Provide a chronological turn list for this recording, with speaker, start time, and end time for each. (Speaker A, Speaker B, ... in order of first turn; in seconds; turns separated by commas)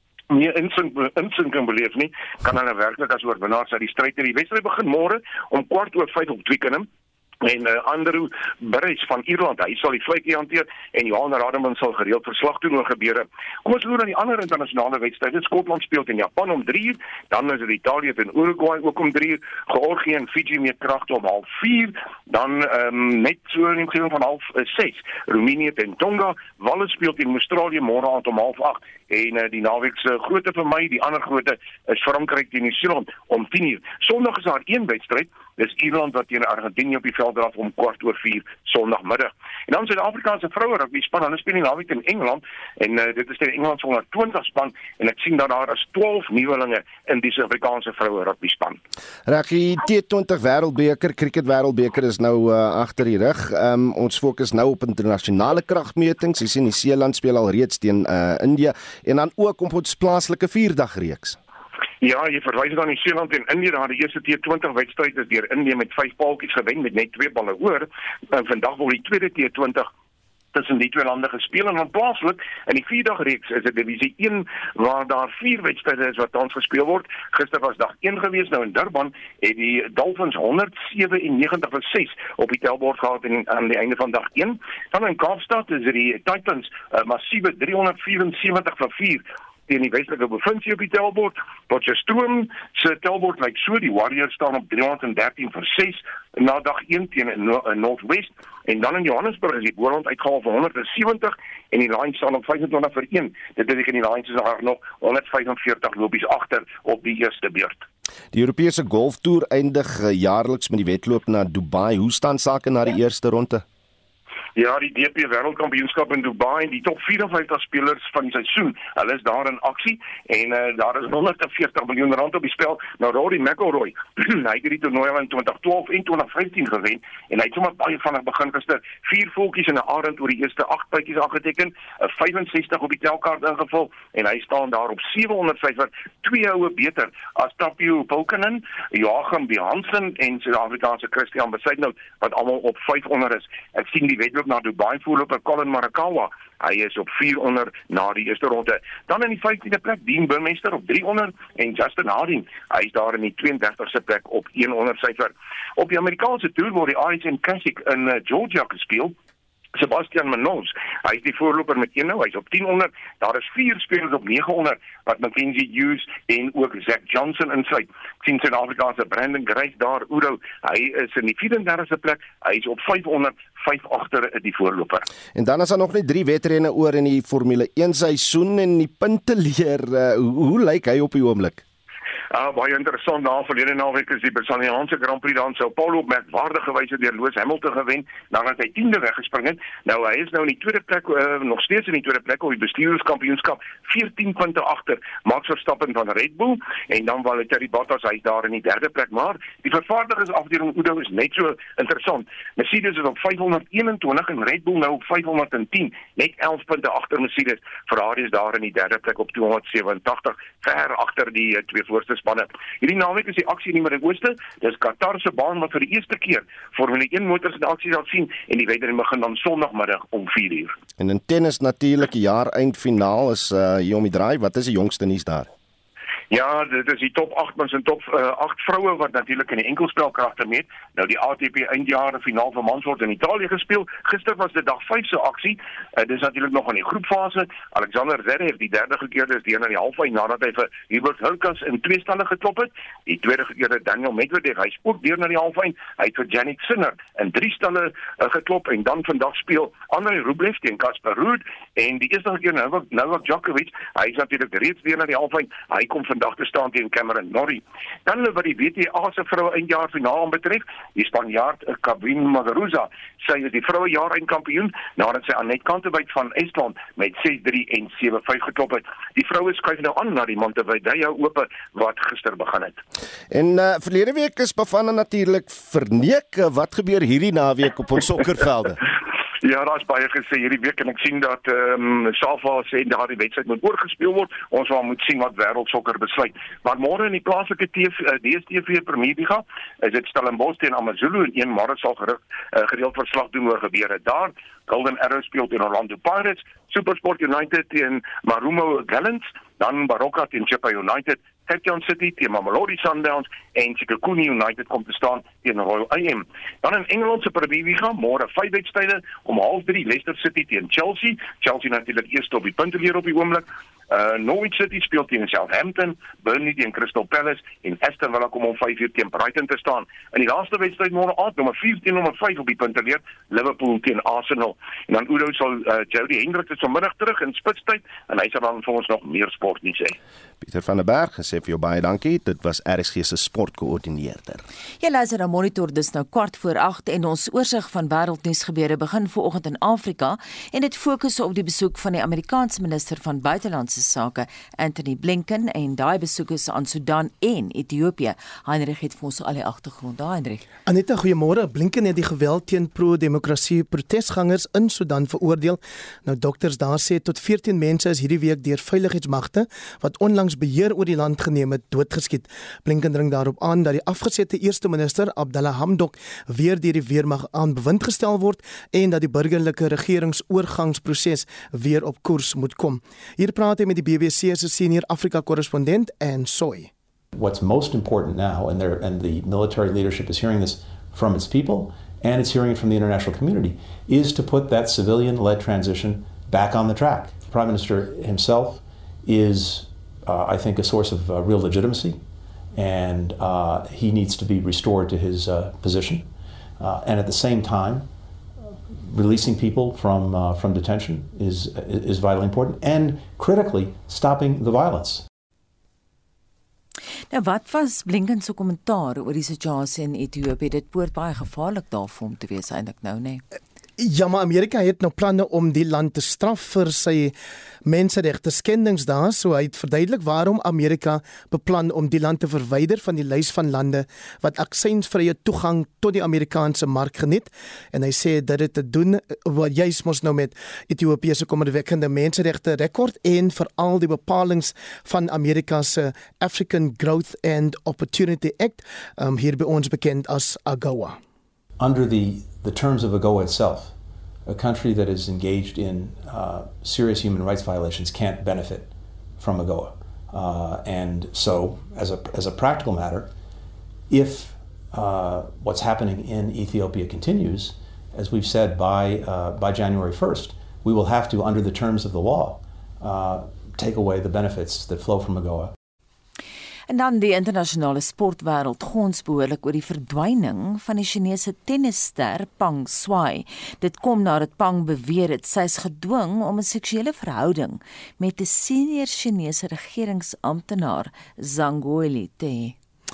Speaker A: 0.3-6.9, Speaker A: 7.4-48.8, Speaker B: 49.2-61.4, Speaker A: 62.0-69.9, Speaker A: 70.5-107.8, Speaker B: 108.3-113.6, Speaker A: 114.5-159.1, Speaker A: 159.7-175.1, Speaker B: 175.3-181.6, Speaker A: 182.3-220.7, Speaker B: 221.0-225.5, Speaker A: 226.3-272.8, Speaker B: 273.3-278.8, Speaker A: 279.4-330.0, Speaker B: 330.4-334.4, Speaker C: 334.8-350.4, Speaker D: 350.6-376.7, Speaker E: 377.1-392.0, Speaker E: 392.5-397.9, Speaker E: 398.8-405.0, Speaker C: 407.1-413.2, Speaker D: 413.8-417.1, Speaker D: 417.6-441.0, Speaker E: 441.6-443.7, Speaker E: 444.3-453.1, Speaker E: 453.9-465.5, Speaker C: 466.7-482.6